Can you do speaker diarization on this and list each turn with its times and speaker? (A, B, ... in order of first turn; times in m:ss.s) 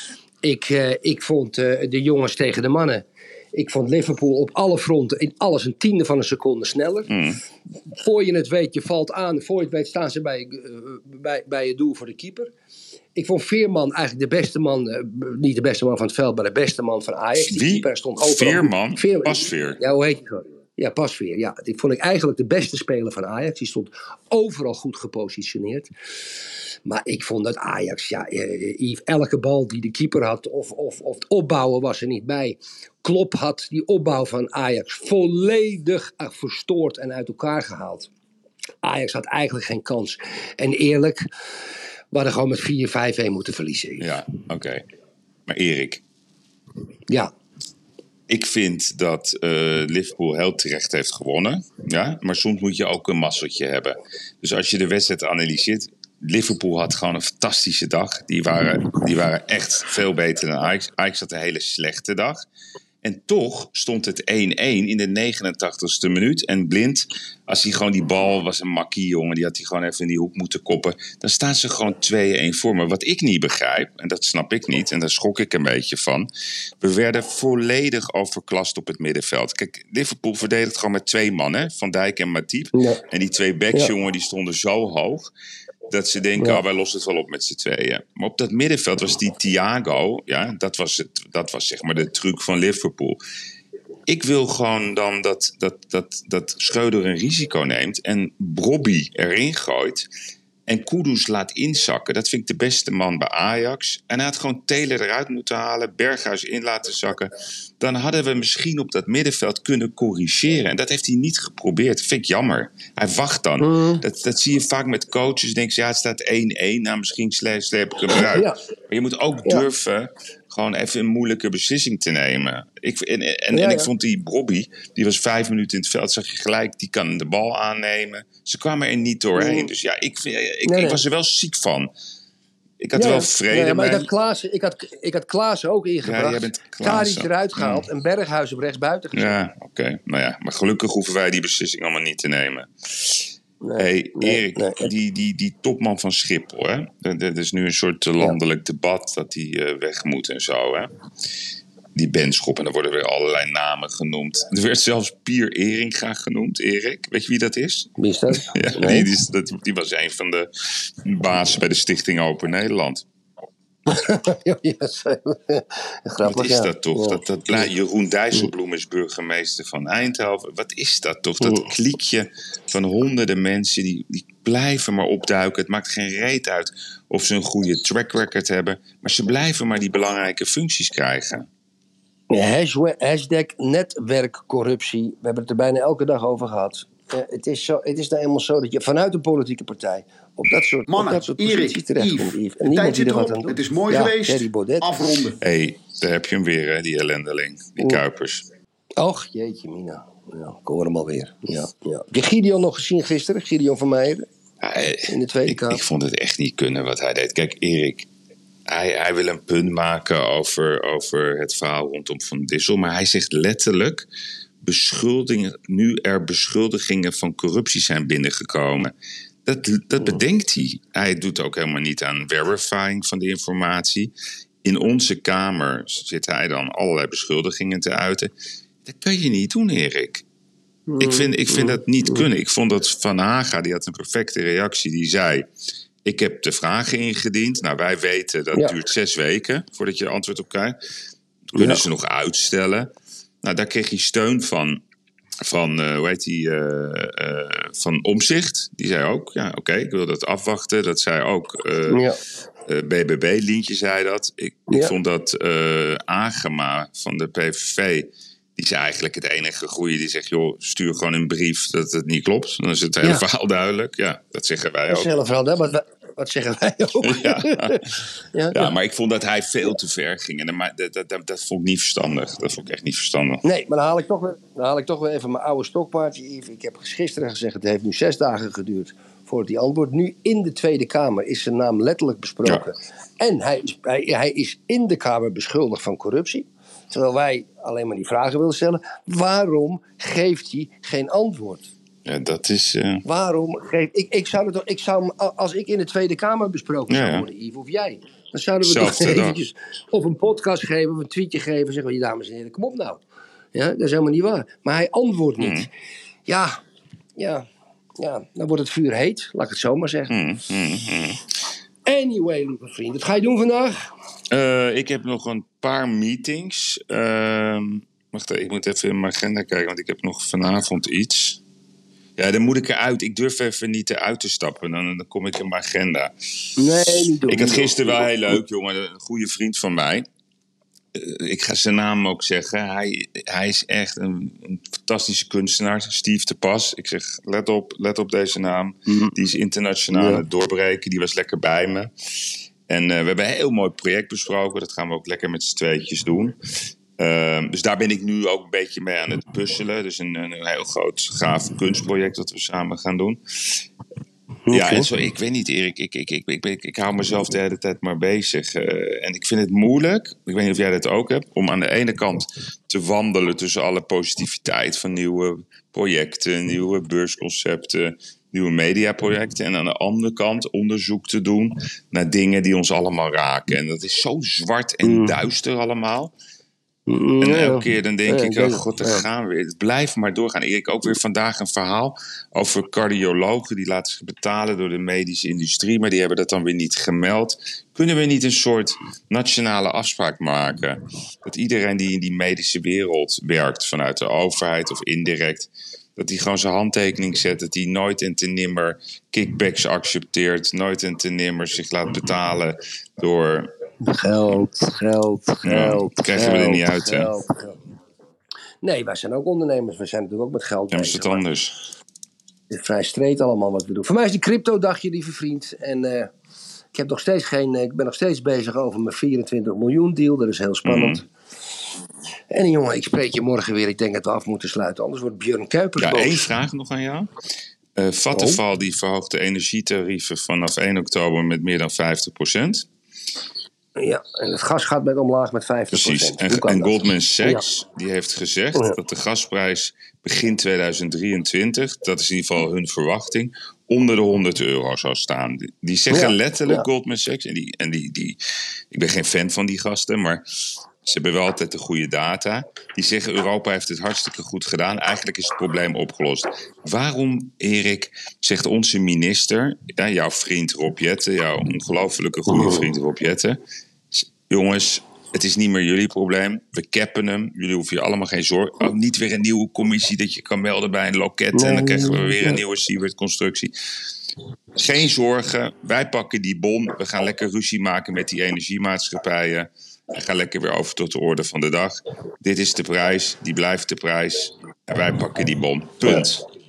0:00.4-0:07.1 A
0:07.1-0:07.4 B
0:08.0-0:12.5 A
0:13.1-0:25.9 A
0:17.4-0:19.8 B
0:26.8-0:38.1 A
0:38.8-0:41.2 A
0:42.1-0:44.2 A
0:44.0-0:44.8 B
0:45.5-0:46.0 B
0:48.3-1:02.4 B
1:03.0-1:16.3 B
1:16.8-1:25.3 B
1:22.7-1:23.0 A
1:25.9-1:33.2 B
1:34.1-1:40.1 B
1:40.7-2:11.9 B
1:53.6-1:54.0 A
1:58.2-1:58.6 A
2:03.5-2:03.9 A
2:09.3-2:09.7 A
2:10.6-2:11.0 A
2:12.8-2:14.1 B
2:12.9-2:19.4 A
2:16.0-2:17.8 B
2:19.1-2:30.9 B
2:23.6-2:24.9 A
2:31.9-2:43.0 B
2:38.0-2:39.1 A
2:43.8-2:47.7 A
2:46.2-3:01.5 B
2:51.4-2:51.6 A
3:02.3-3:15.0 A
3:10.9-3:15.4 C
3:15.4-3:18.4 B
3:19.0-3:24.2 A
3:24.6-3:28.1 B
3:25.1-3:25.8 A
3:28.7-3:34.1 B
3:34.6-3:38.9 B
3:39.4-3:44.1 B
3:44.6-3:48.3 B
3:48.8-3:50.2 B
3:50.9-3:52.2 A
3:51.0-3:55.5 B
3:56.0-4:00.8 B
4:01.5-4:02.9 B
4:01.5-4:01.8 A
4:03.4-4:04.8 B
4:05.4-4:12.1 B
4:11.9-4:12.2 A
4:12.6-4:25.1 B
4:24.9-4:28.7 A
4:27.0-4:27.8 B
4:28.5-4:33.4 B
4:33.4-4:51.7 A
4:52.0-4:53.0 B
4:53.0-5:03.0 A
4:56.9-4:57.3 B
4:58.6-4:59.4 B
5:03.5-5:05.7 A
5:05.4-5:05.7 B
5:06.3-5:06.6 A
5:07.2-5:07.4 A
5:08.0-5:10.1 A
5:10.1-5:11.2 B
5:11.8-5:13.8 A
5:14.3-5:21.4 B
5:22.2-5:26.1 B
5:26.6-5:28.1 A
5:26.6-5:30.0 B
5:30.9-5:46.4 B
5:38.9-5:39.1 A
5:39.9-5:40.2 A
5:47.0-5:53.6 B
5:54.4-5:54.9 A
5:54.5-6:16.1 B
6:14.8-6:15.2 A
6:16.9-6:19.0 A
6:17.2-6:43.5 B
6:43.8-6:47.6 A
6:45.4-6:47.1 B
6:48.6-6:51.2 A
6:50.7-6:51.5 B
6:52.5-6:56.1 A
6:56.7-7:01.0 A
7:00.6-7:01.0 B
7:02.3-7:06.3 A
7:05.8-7:07.1 B
7:07.8-7:12.7 B
7:08.1-7:08.4 A
7:13.8-7:17.4 A
7:15.7-7:28.2 B
7:25.9-7:26.6 A
7:28.7-7:43.4 B
7:42.3-7:42.7 A
7:43.9-7:53.5 B
7:51.3-7:52.4 A
7:54.6-8:06.2 B